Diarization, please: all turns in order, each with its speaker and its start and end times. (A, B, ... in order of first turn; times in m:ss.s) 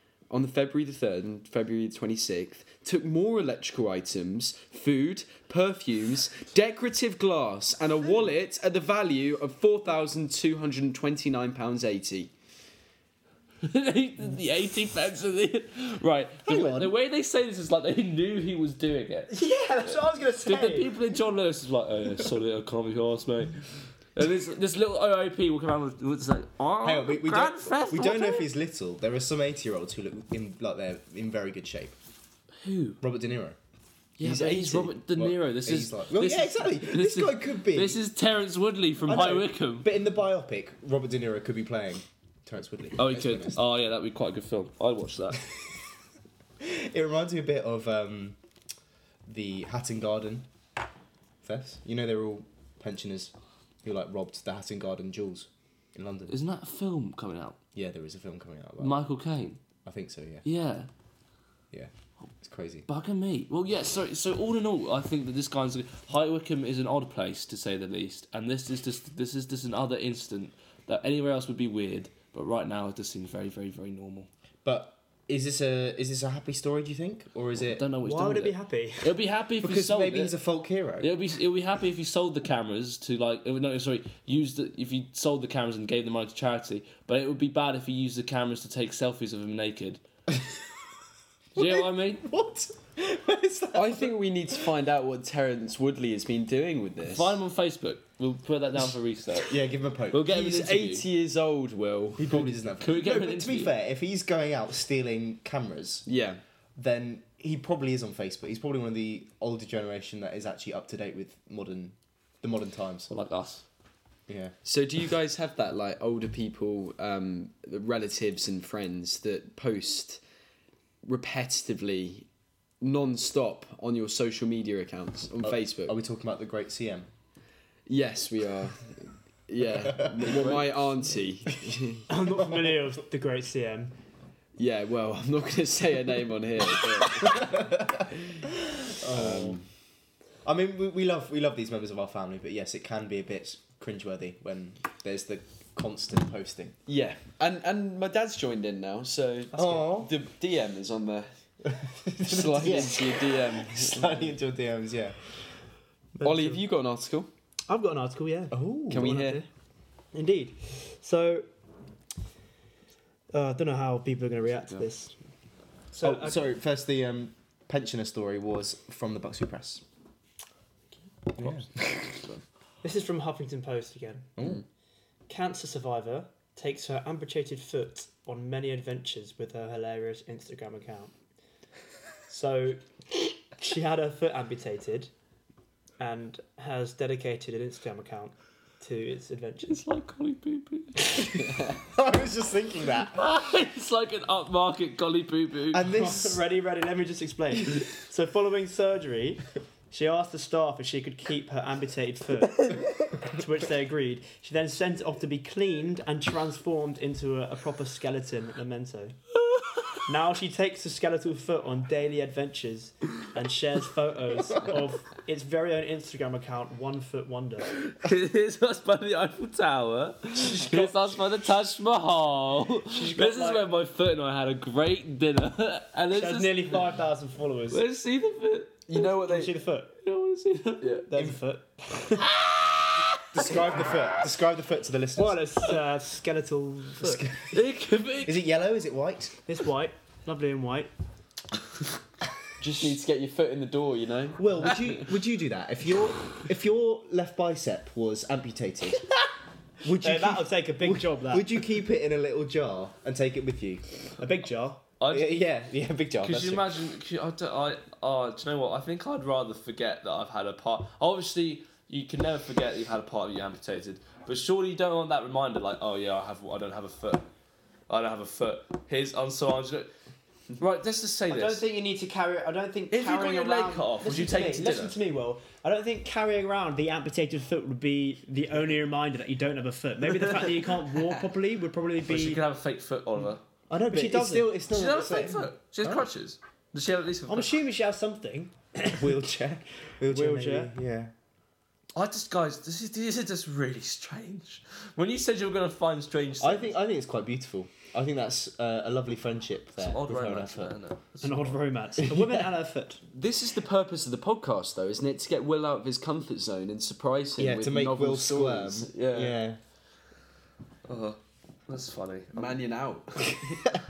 0:00.3-0:12.3 A
0:13.6-0:19.4 B
0:16.5-0:16.9 C
0:19.3-0:20.9 D
0:20.4-0:23.6 B
0:24.1-0:28.5 B
0:26.8-0:32.0 C
0:32.6-0:33.0 B
0:33.0-0:33.6 C
0:34.2-0:39.9 B
0:34.2-0:34.9 A
0:35.0-0:38.0 C
0:39.0-0:43.6 C
0:43.0-0:45.4 B
0:46.6-0:48.4 C
0:49.2-0:50.5 C
0:51.4-0:53.3 C
0:53.8-0:56.3 C
0:56.3-0:57.6 B
0:57.7-0:59.0 C
0:58.8-0:59.6 B
0:59.8-1:00.4 C
1:00.4-1:00.9 B
1:01.7-1:02.9 C
1:02.9-1:14.3 B
1:14.6-1:17.9 C
1:17.7-1:20.4 B
1:18.0-1:19.1 D
1:19.6-1:21.1 C
1:21.0-1:30.0 B
1:31.6-1:32.2 B
1:31.6-1:34.1 C
1:33.7-1:37.4 A
1:37.1-1:41.0 B
1:39.4-1:40.3 C
1:40.2-1:42.5 A
1:42.2-1:46.0 C
1:42.8-1:43.7 B
1:46.0-1:46.4 A
1:46.8-1:53.1 C
1:53.1-1:53.6 B
1:54.3-1:54.5 C
1:54.6-2:00.2 A
2:01.0-2:02.3 A
2:02.8-2:06.0 A
2:05.4-2:07.1 C
2:07.8-2:12.0 A
2:09.6-2:10.7 C
2:12.1-2:13.9 D
2:14.6-2:18.4 A
2:17.2-2:18.0 C
2:18.9-2:19.5 C
2:19.0-2:19.7 A
2:20.4-2:26.8 C
2:26.9-2:31.3 A
2:29.5-2:30.1 C
2:31.6-2:35.2 C
2:32.1-2:34.3 A
2:36.2-2:36.6 D
2:36.2-2:37.3 A
2:37.7-2:39.5 D
2:38.5-2:39.2 C
2:38.9-2:39.4 A
2:40.1-2:41.5 D
2:43.3-2:45.1 D
2:45.9-2:46.4 D
2:46.0-2:49.8 C
2:51.4-2:52.0 C
2:52.8-2:54.3 D
2:54.4-2:54.6 C
2:55.3-3:01.1 D
3:02.3-3:05.1 D
3:06.0-3:09.8 D
3:09.7-3:11.3 B
3:11.8-3:13.2 C
3:13.1-3:15.9 B
3:15.7-3:16.4 C
3:15.9-3:29.2 D
3:29.4-3:29.9 B
3:30.0-3:37.7 D
3:37.7-3:46.8 B
3:42.9-3:43.6 D
3:46.1-3:47.8 D
3:47.7-3:48.8 B
3:48.9-3:49.5 A
3:48.9-3:49.9 D
3:50.0-3:51.0 B
3:50.8-3:51.1 A
3:51.1-3:52.2 D
3:52.2-3:53.5 B
3:53.3-3:55.4 C
3:55.2-3:57.3 D
3:57.0-3:57.6 C
3:57.5-3:58.4 B
3:58.2-3:59.3 C
3:59.5-4:00.9 D
4:02.6-4:05.0 A
4:04.4-4:09.0 C
4:09.8-4:13.8 C
4:09.8-4:11.5 D
4:14.2-4:14.8 D
4:15.0-4:15.4 B
4:15.1-4:16.8 C
4:16.2-4:27.2 B
4:27.9-4:29.9 B
4:30.6-4:31.6 B
4:31.3-4:42.4 D
4:32.9-4:33.2 A
4:33.1-4:35.0 B
4:42.0-4:43.4 B
4:43.7-4:44.5 D
4:43.9-4:46.1 C
4:44.7-4:47.5 B
4:47.3-4:49.2 D
4:49.0-4:51.1 C
4:50.1-4:50.7 D
4:51.9-4:56.8 B
4:56.4-5:00.7 C
4:59.8-5:01.6 B
5:01.2-5:03.0 D
5:03.1-5:09.4 A
5:07.4-5:09.6 C
5:10.9-5:12.6 B
5:12.3-5:13.7 A